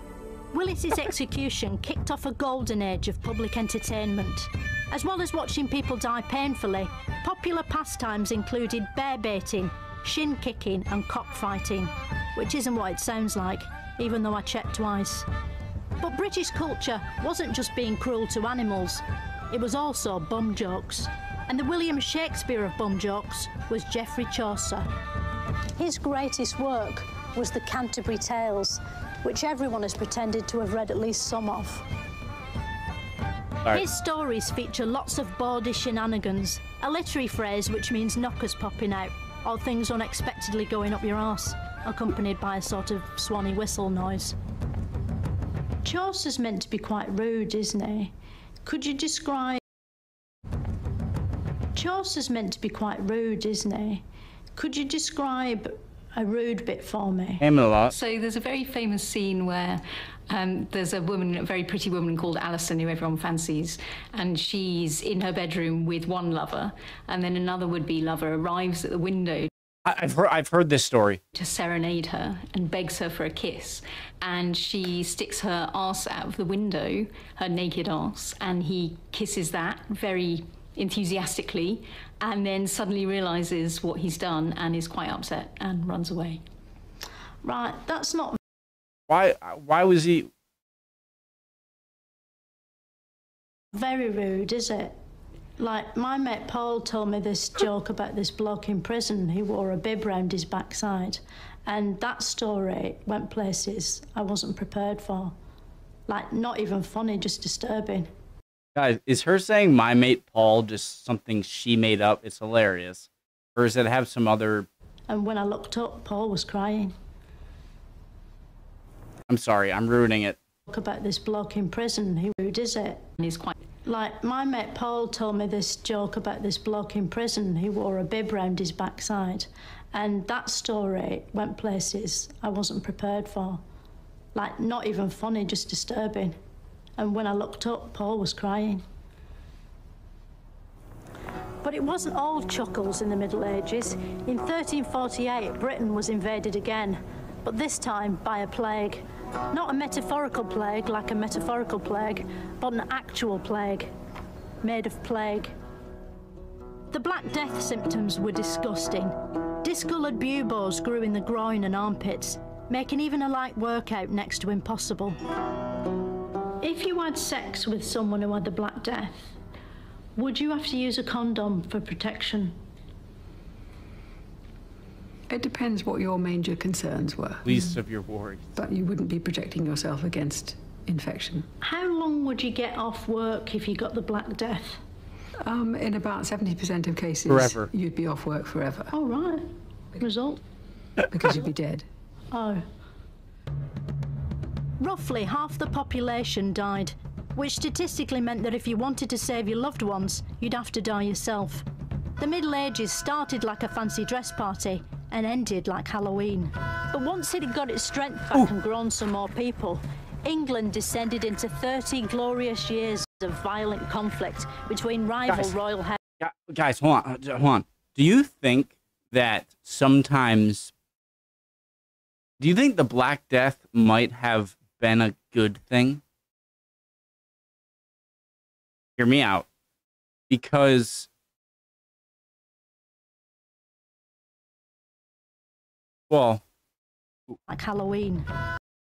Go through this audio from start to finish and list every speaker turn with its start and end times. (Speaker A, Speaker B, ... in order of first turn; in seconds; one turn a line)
Speaker A: 0.5-15.3
Speaker A: 16.0-24.9
Speaker A: 25.8-31.9
Speaker A: 33.7-44.4
Speaker A: 45.8-48.1
Speaker A: 48.6-49.6
Speaker A: 51.8-54.0
Speaker A: 54.5-57.4
Speaker B: 57.4-57.9
Speaker C: 57.9-69.5
Speaker B: 69.9-71.2
Speaker C: 71.3-86.4
Speaker A: 87.4-88.4
Speaker B: 89.1-90.3
Speaker A: 93.7-95.0
Speaker A: 95.6-105.3
Speaker A: 106.1-108.1
Speaker B: 108.8-114.7
Speaker A: 115.1-117.0
Speaker B: 119.3-120.4
Speaker A: 120.7-123.1
Speaker C: 123.2-123.6
Speaker A: 123.8-133.6
Speaker A: 134.3-136.4
Speaker A: 137.0-138.8
Speaker A: 141.6-153.9
Speaker A: 154.6-155.5
Speaker A: 156.9-165.2
Speaker A: 166.6-169.3
Speaker A: 170.2-172.6
Speaker D: 175.3-177.7
Speaker B: 177.4-178.5
Speaker D: 178.6-181.5
Speaker A: 181.6-184.8
Speaker D: 185.4-188.9
Speaker B: 187.3-187.7
Speaker A: 188.9-190.4
Speaker D: 191.1-191.9
Speaker A: 192.3-192.7
Speaker A: 194.8-201.7
Speaker A: 202.2-216.0
Speaker B: 216.2-220.7
Speaker B: 222.4-226.0
Speaker B: 229.0-229.5
Speaker B: 230.3-231.1
Speaker B: 236.1-236.4
Speaker A: 237.5-238.3